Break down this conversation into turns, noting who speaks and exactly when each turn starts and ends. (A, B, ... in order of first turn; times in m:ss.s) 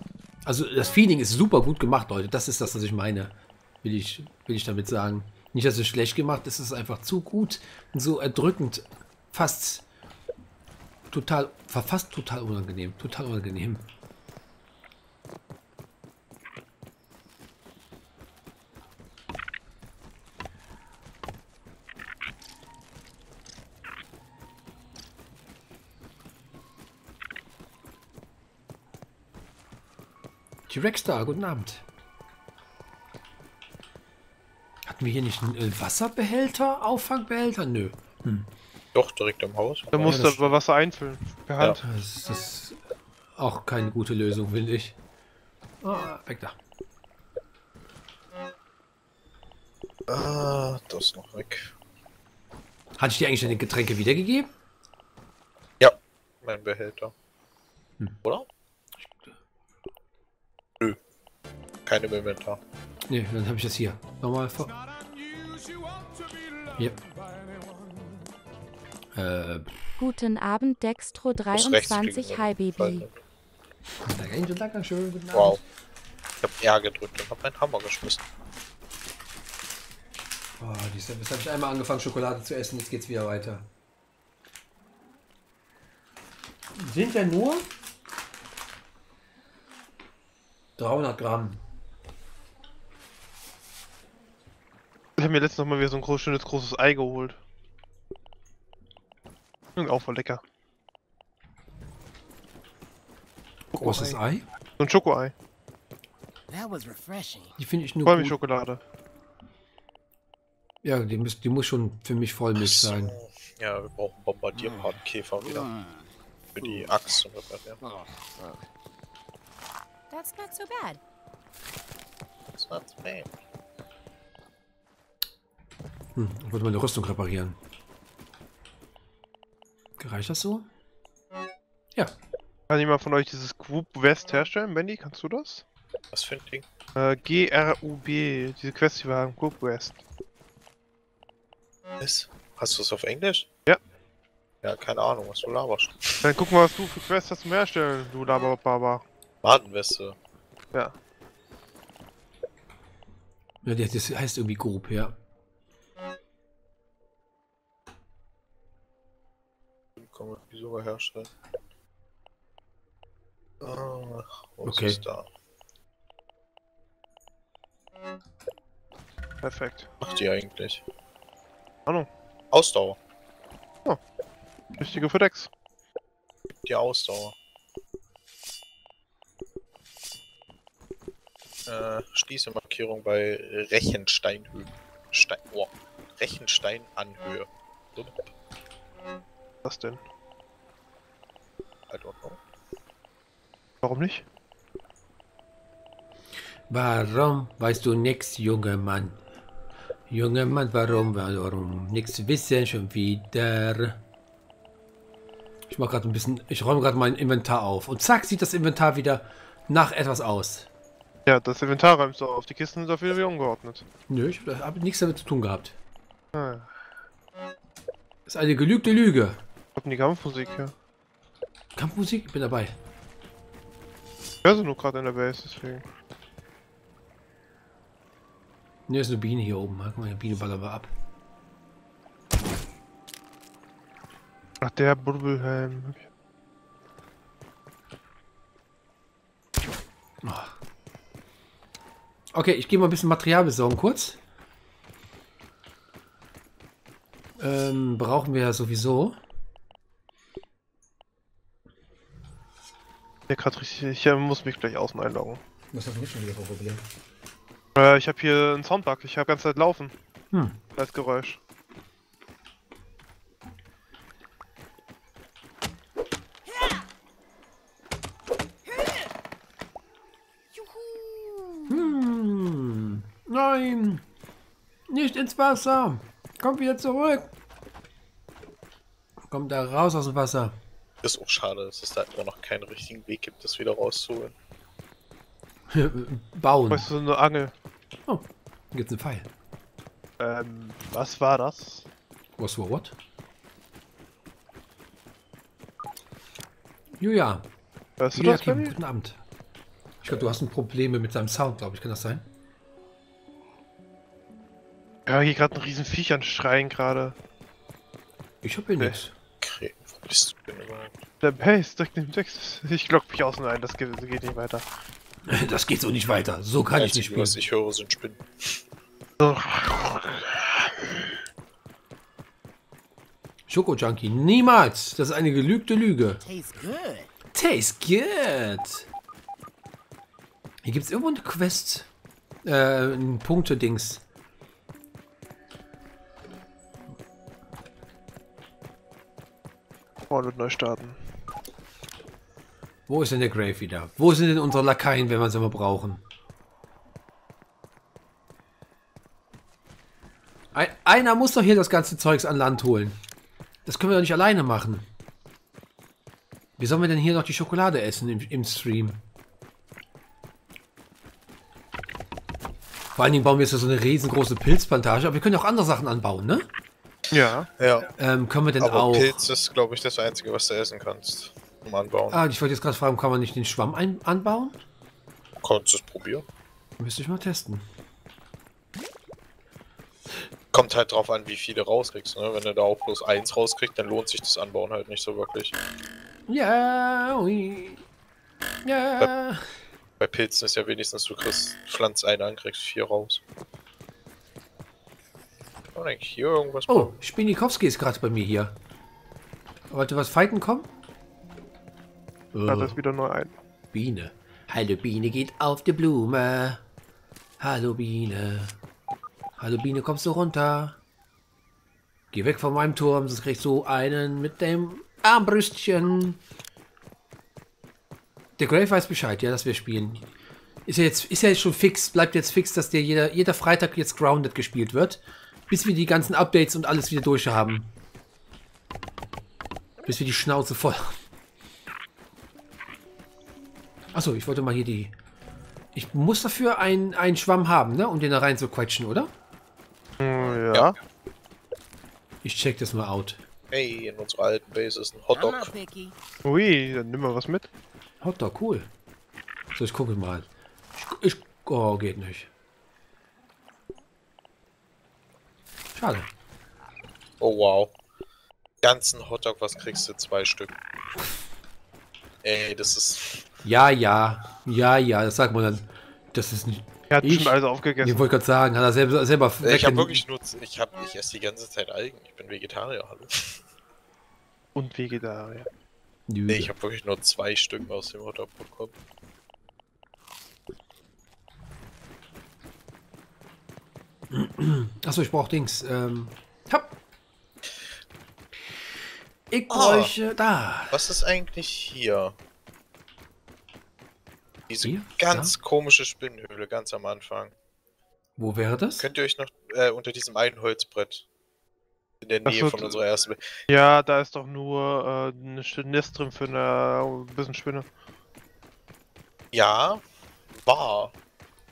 0:00.4-0:09.8 A
0:11.1-0:13.8 A
0:30.7-0:31.8 A
0:34.8-0:38.5 A
0:38.9-0:40.5 B
0:39.9-0:41.9 C
0:40.0-0:40.5 A
0:41.8-0:42.8 A
0:43.4-0:45.0 A
0:45.8-0:46.6 A
0:50.1-0:51.7 B
0:53.0-0:54.5 A
0:55.8-0:57.1 B
0:59.0-0:59.3 A
1:01.8-1:02.6 B
1:03.1-1:04.8 A
1:09.1-1:09.9 A
1:10.0-1:13.0 D
1:11.5-1:13.2 B
1:14.0-1:15.6 A
1:15.3-1:15.6 B
1:16.4-1:18.2 B
1:20.6-1:23.6 A
1:26.7-1:27.7 A
1:30.8-1:31.6 A
1:35.2-1:37.4 C
1:39.8-1:40.4 C
1:43.7-1:44.2 C
1:43.8-1:44.4 A
1:44.8-1:45.3 C
1:46.5-1:47.5 E
1:47.6-1:48.4 A
1:48.0-1:48.8 C
1:50.8-1:53.1 A
1:52.6-1:55.7 B
1:55.6-1:55.9 E
1:56.5-1:57.8 B
1:57.9-1:58.6 E
2:00.1-2:01.0 D
2:02.6-2:03.3 B
2:06.1-2:07.6 A
2:10.0-2:10.6 A
2:12.7-2:15.6 C
2:16.1-2:16.6 B
2:16.9-2:20.0 C
2:22.0-2:23.5 B
2:24.6-2:26.3 B
2:26.2-2:29.0 C
2:29.4-2:30.2 B
2:33.6-2:35.1 A
2:40.0-2:41.3 B
2:43.6-2:45.3 B
2:44.6-2:45.0 A
2:49.4-2:49.9 C
2:50.0-2:50.8 B
2:52.5-2:53.0 B
2:54.8-2:55.5 C
2:56.6-2:57.3 B
3:01.6-3:08.2 B
3:09.6-3:10.0 C
3:11.9-3:12.4 B
3:13.8-3:14.2 C
3:16.7-3:19.2 A
3:20.1-3:24.0 A
3:25.7-3:30.7 A
3:31.2-3:33.8 C
3:34.1-3:35.8 A
3:36.3-3:36.7 C
3:38.3-3:39.4 A
3:39.8-3:40.7 C
3:41.8-3:42.7 A
3:44.4-3:45.8 C
3:48.9-3:50.9 A
3:54.6-3:56.0 C
4:00.2-4:00.6 A
4:02.3-4:04.2 A
4:07.4-4:09.2 A
4:13.3-4:15.4 C
4:15.7-4:16.8 A
4:17.7-4:19.9 C
4:20.3-4:20.6 A
4:20.7-4:21.4 C
4:28.7-4:28.9 E
4:30.5-4:31.9 E
4:31.7-4:34.0 A
4:34.9-4:37.3 A
4:39.3-4:40.5 A
4:41.0-4:44.3 B
4:45.7-4:46.9 A
4:46.7-4:47.5 C
4:48.1-4:49.3 A
4:50.2-4:51.8 C
4:52.4-4:52.9 A
4:57.0-4:57.4 A
4:58.0-4:58.7 C
4:58.1-4:59.2 A
5:00.0-5:02.2 A
5:05.0-5:07.2 C
5:08.4-5:09.1 A
5:09.4-5:10.9 B
5:11.2-5:14.6 C
5:15.2-5:17.4 A
5:16.7-5:18.6 B
5:19.2-5:20.9 C
5:23.5-5:26.2 A
5:26.2-5:27.1 E
5:27.3-5:28.9 A
5:30.6-5:31.9 A
5:32.4-5:34.0 A
5:40.1-5:41.0 C
5:42.9-5:46.0 A
5:50.5-5:53.0 A
5:53.6-5:54.8 A
5:56.6-5:59.0 A
6:03.0-6:06.5 A
6:07.1-6:07.5 C
6:07.6-6:07.9 B
6:07.9-6:09.2 A
6:08.6-6:12.2 B
6:12.1-6:14.6 A
6:15.4-6:16.2 B
6:16.8-6:17.6 A
6:20.5-6:25.6 B
6:26.3-6:27.8 A
6:28.6-6:29.4 A
6:30.0-6:33.2 B
6:35.7-6:36.9 B
6:36.7-6:38.6 A
6:39.7-6:40.7 A
6:42.3-6:42.8 A
6:42.5-6:43.3 C
6:43.7-6:46.6 A
6:47.4-6:48.6 A
6:49.4-6:50.8 A
6:52.1-6:56.2 A
6:58.4-7:00.1 A
7:00.6-7:07.7 A
7:09.8-7:11.0 A
7:13.9-7:14.9 A
7:15.7-7:19.1 A
7:20.0-7:20.8 C
7:20.2-7:20.8 B
7:22.2-7:23.2 A
7:23.5-7:25.5 B
7:25.1-7:25.9 E
7:26.2-7:27.5 C
7:28.0-7:28.7 A
7:29.5-7:32.3 A
7:35.7-7:36.1 A
7:37.2-7:37.7 B
7:38.6-7:40.6 B
7:42.2-7:43.2 B
7:43.4-7:50.0 A
7:46.9-7:48.1 C
7:49.4-7:53.4 B
7:54.5-7:55.5 C
7:56.1-7:56.5 A
7:56.3-7:58.7 B
8:04.1-8:06.7 A
8:09.3-8:10.8 A
8:09.5-8:09.9 B
8:10.7-8:12.1 B
8:14.5-8:17.3 B
8:14.6-8:15.3 A
8:18.2-8:18.9 A
8:18.8-8:21.0 B
8:22.0-8:23.4 B
8:22.2-8:22.8 C
8:23.5-8:27.7 C
8:29.3-8:29.8 B
8:30.4-8:30.9 B